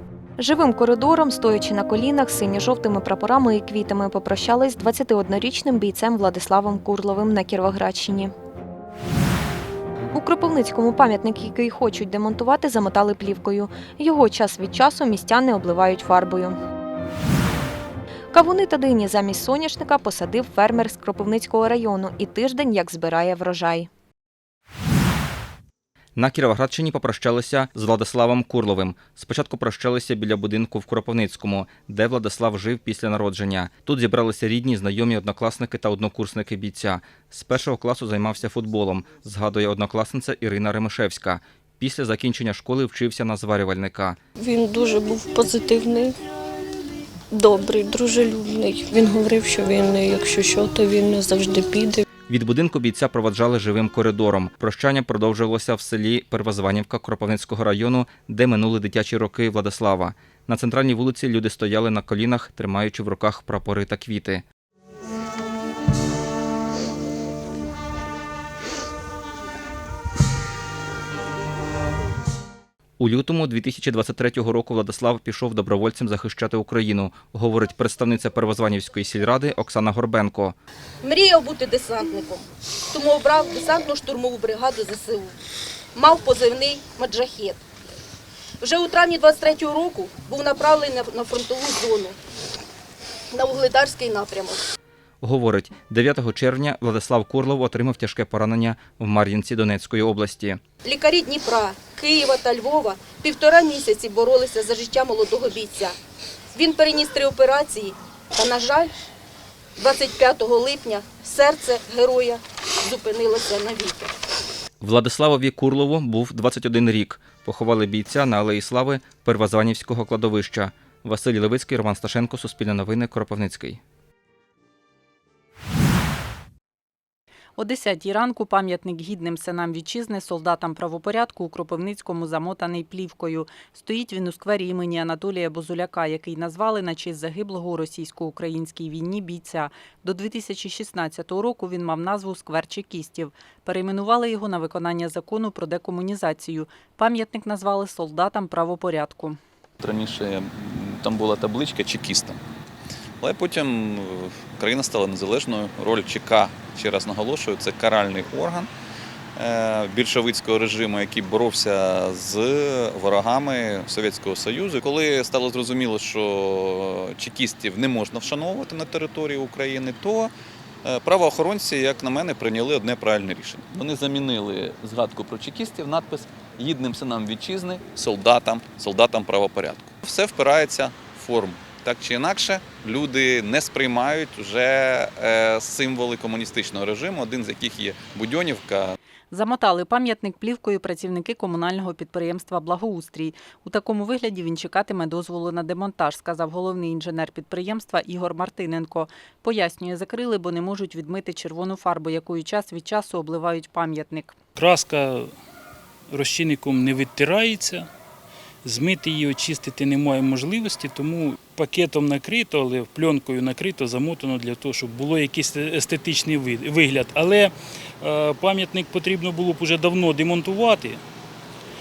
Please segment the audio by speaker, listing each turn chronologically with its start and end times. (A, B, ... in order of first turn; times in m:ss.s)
0:00.4-0:08.3 A
0:10.1-0:16.6 A
0:18.3-0:23.9 A
0:26.2-0:44.2 B
0:44.4-0:46.1 C
0:47.3-0:52.0 C
0:52.3-1:04.4 B
1:13.0-1:20.6 B
1:21.0-1:25.3 D
1:25.9-1:27.6 D
1:28.6-1:32.2 D
1:33.3-1:34.6 D
1:35.2-1:40.6 B
1:40.8-1:46.0 D
1:46.5-1:48.9 D
1:49.8-1:54.1 D
1:54.8-2:03.8 B
2:07.6-2:29.4 E
2:29.8-2:32.4 F
2:33.2-2:38.7 F
2:39.4-2:50.3 F
2:50.8-3:08.9 F
3:09.3-3:24.4 E
3:24.6-3:25.3 G
3:26.1-3:27.9 G
3:28.6-3:41.0 G